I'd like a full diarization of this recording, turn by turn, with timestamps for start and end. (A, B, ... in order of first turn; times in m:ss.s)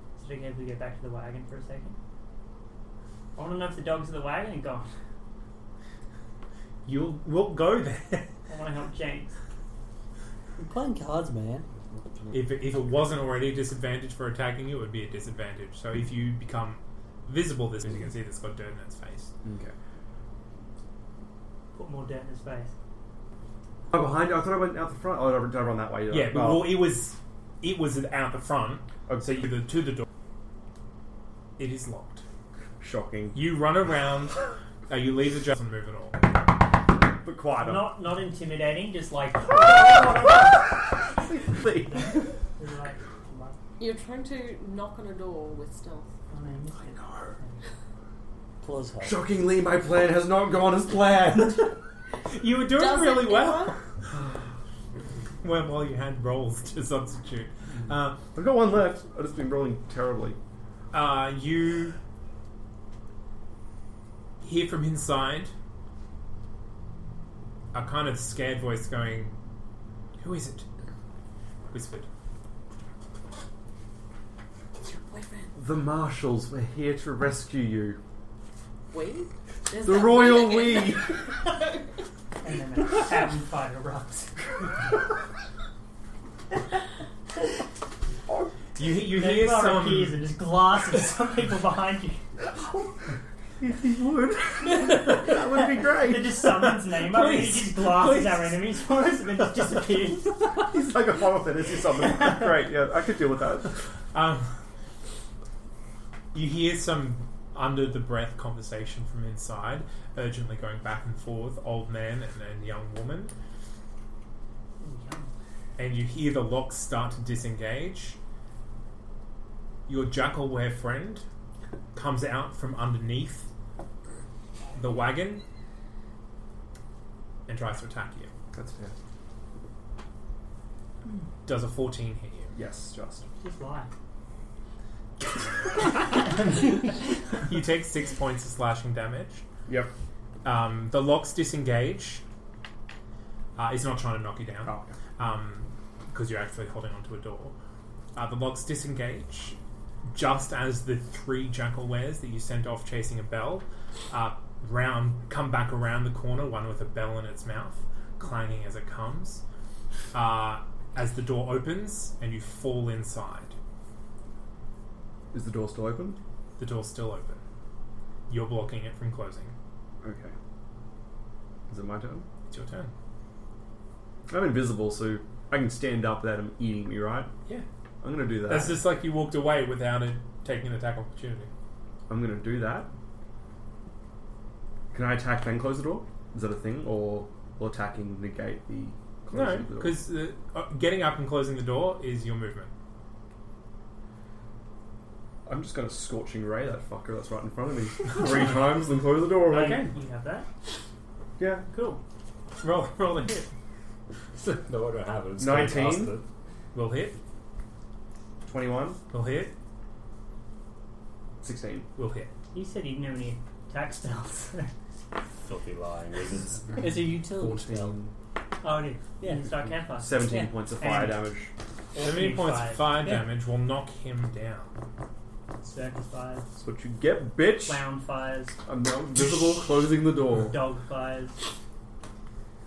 0:00.2-0:02.0 A
0:03.4-0:04.9 A
0:06.8-0:08.3 B
0:08.5-0:09.4 A
0:10.6-0:11.7 C
0:12.3-0:19.3 B
0:19.4-0:19.7 D
0:21.7-0:22.7 A
0:23.9-0:26.8 D
0:26.1-0:30.0 B
0:29.1-0:29.5 D
0:31.6-0:32.2 B
0:32.8-0:33.4 D
0:33.3-0:36.4 B
0:37.2-0:38.0 D
0:37.6-0:40.7 A
0:39.5-0:42.3 D
0:41.7-0:43.6 A
0:43.8-0:46.1 E
0:46.3-0:47.6 A
0:48.6-0:49.2 C
0:49.0-0:51.7 D
0:52.3-0:53.8 B
0:52.7-0:53.8 E
0:55.4-0:58.2 B
0:58.3-1:00.4 D
1:00.9-1:02.0 B
1:04.4-1:05.5 B
1:07.7-1:09.3 B
1:10.2-1:10.6 B
1:11.7-1:12.1 B
1:14.8-1:15.5 E
1:15.5-1:18.0 D
1:18.9-1:21.8 E
1:19.8-1:21.2 D
1:22.4-1:24.8 A
1:28.8-1:30.3 B
1:29.0-1:32.8 A
1:33.6-1:36.4 D
1:34.8-1:40.7 A
1:34.9-1:35.2 B
1:36.4-1:38.6 B
1:40.5-1:43.7 D
1:42.0-1:42.5 A
1:44.1-1:44.5 B
1:46.3-1:53.3 B
1:54.8-1:55.3 A
1:55.8-1:58.2 B
1:59.9-2:01.2 B
2:01.9-2:03.5 B
2:04.7-2:05.4 B
2:07.5-2:08.3 B
2:08.5-2:08.9 D
2:11.4-2:12.6 B
2:12.6-2:13.3 D
2:13.4-2:13.9 A
2:15.2-2:16.3 B
2:15.8-2:17.1 A
2:17.4-2:19.4 B
2:19.7-2:19.9 D
2:20.4-2:22.2 B
2:23.6-2:27.6 B
2:24.6-2:24.9 D
2:28.1-2:29.6 B
2:30.1-2:39.4 B
2:40.1-2:43.6 B
2:45.3-2:46.2 D
2:46.6-2:47.4 B
2:48.3-2:49.6 B
2:50.0-2:50.3 D
2:51.7-2:52.3 D
2:52.5-2:52.9 B
2:54.3-2:57.3 D
2:58.0-2:58.8 D
2:58.5-3:01.5 B
3:02.1-3:02.9 D
3:04.9-3:10.0 D
3:09.3-3:12.7 B
3:15.4-3:19.9 D
3:19.4-3:20.5 A
3:19.6-3:19.9 B
3:21.4-3:21.7 D
3:21.7-3:22.0 A
3:22.6-3:23.4 B
3:24.4-3:26.2 F
3:25.4-3:26.1 D
3:26.7-3:27.2 B
3:28.5-3:29.0 D
3:29.1-3:29.5 B
3:31.4-3:31.9 D
3:32.0-3:32.3 B
3:32.5-3:34.7 A
3:35.4-3:36.8 F
3:36.8-3:38.0 C
3:37.3-3:38.1 D
3:38.6-3:41.3 A
3:40.0-3:41.5 D
3:41.9-3:43.2 A
3:42.0-3:44.7 B
3:45.6-3:46.5 A
3:46.6-3:47.9 D
3:47.6-3:48.6 A
3:48.6-3:50.7 D
3:50.3-3:51.4 A